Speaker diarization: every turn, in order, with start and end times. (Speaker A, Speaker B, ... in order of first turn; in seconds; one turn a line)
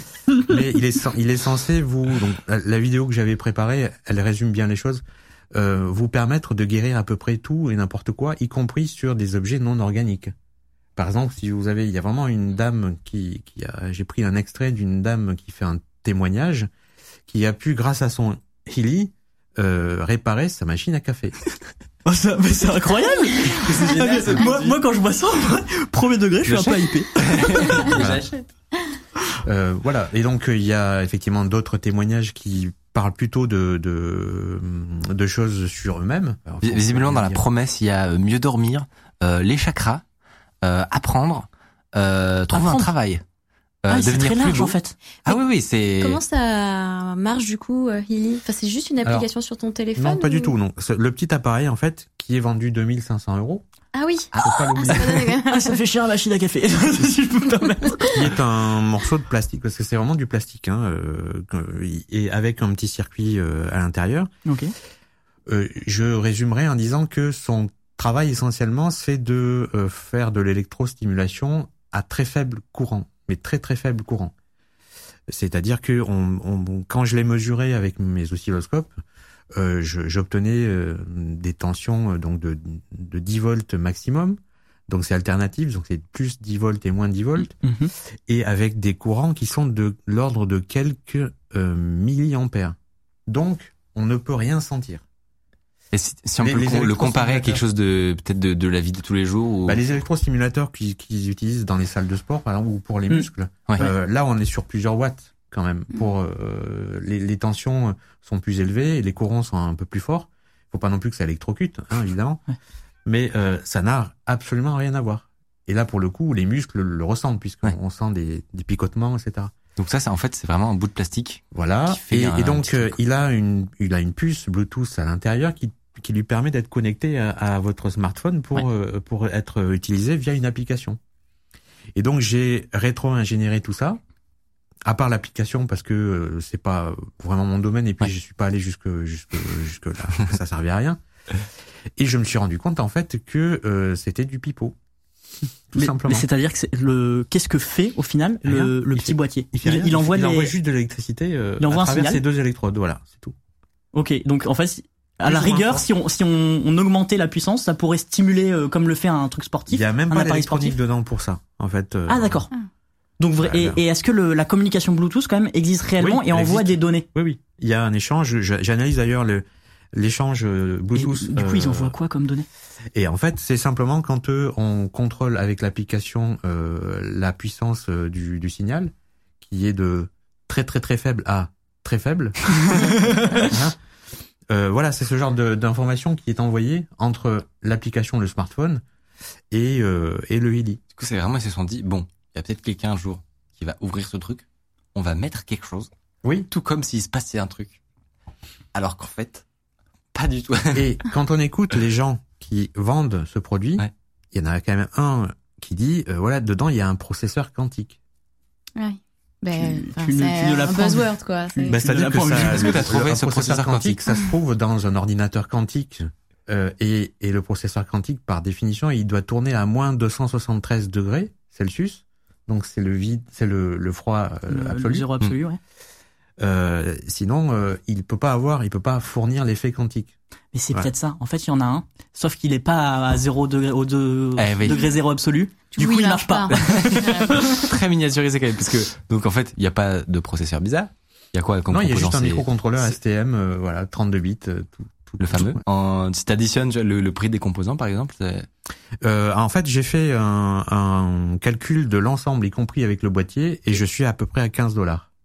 Speaker A: 0.3-5.0
Speaker A: 5.5-10.3
Speaker A: 11.0-16.7
Speaker A: 17.3-21.4
Speaker B: 22.1-27.8
Speaker C: 23.5-24.8
Speaker C: 26.5-28.4
Speaker A: 27.9-28.2
Speaker A: 29.4-37.4
Speaker C: 36.6-40.0
Speaker C: 40.6-43.2
Speaker B: 42.5-42.9
Speaker C: 43.8-46.2
Speaker B: 43.9-45.0
Speaker D: 46.0-50.5
Speaker A: 50.0-53.6
Speaker D: 53.9-55.8
Speaker C: 54.4-55.1
Speaker A: 54.4-55.2
Speaker B: 55.4-58.3
Speaker A: 58.1-64.3
Speaker B: 64.5-64.7
Speaker A: 65.5-74.3
Speaker A: 75.3-79.0
Speaker A: 79.5-87.6
Speaker B: 87.6-87.9
Speaker A: 88.3-92.8
Speaker A: 93.3-95.0
Speaker C: 95.9-99.8
Speaker A: 96.4-97.6
Speaker A: 99.7-112.4
Speaker A: 113.1-119.5
Speaker C: 119.8-123.0
Speaker A: 121.5-131.0
Speaker A: 131.9-134.0
Speaker A: 134.9-141.0
Speaker A: 142.0-144.8
Speaker A: 145.7-146.3
Speaker B: 145.8-150.5
Speaker A: 148.4-153.3
Speaker B: 151.6-152.2
Speaker B: 153.9-160.8
Speaker A: 155.2-155.9
Speaker A: 159.7-162.4
Speaker B: 162.1-162.5
Speaker B: 163.2-167.1
Speaker A: 163.4-163.8
Speaker A: 166.0-171.9
Speaker B: 171.0-172.5
Speaker A: 172.9-183.8
Speaker A: 184.5-188.8
Speaker A: 189.5-190.8
Speaker C: 191.0-195.9
Speaker A: 196.2-196.5
Speaker C: 196.5-197.8
Speaker C: 198.7-199.4
Speaker C: 200.1-201.0
Speaker A: 200.7-208.0
Speaker D: 208.8-211.8
Speaker B: 209.5-212.9
Speaker A: 211.7-225.1
Speaker C: 212.1-214.0
Speaker B: 224.5-225.6
Speaker A: 226.4-230.1
Speaker B: 230.5-237.7
Speaker C: 234.4-234.9
Speaker D: 235.7-237.5
Speaker C: 236.5-242.8
Speaker A: 241.7-245.6
Speaker C: 245.2-248.5
Speaker A: 249.0-255.1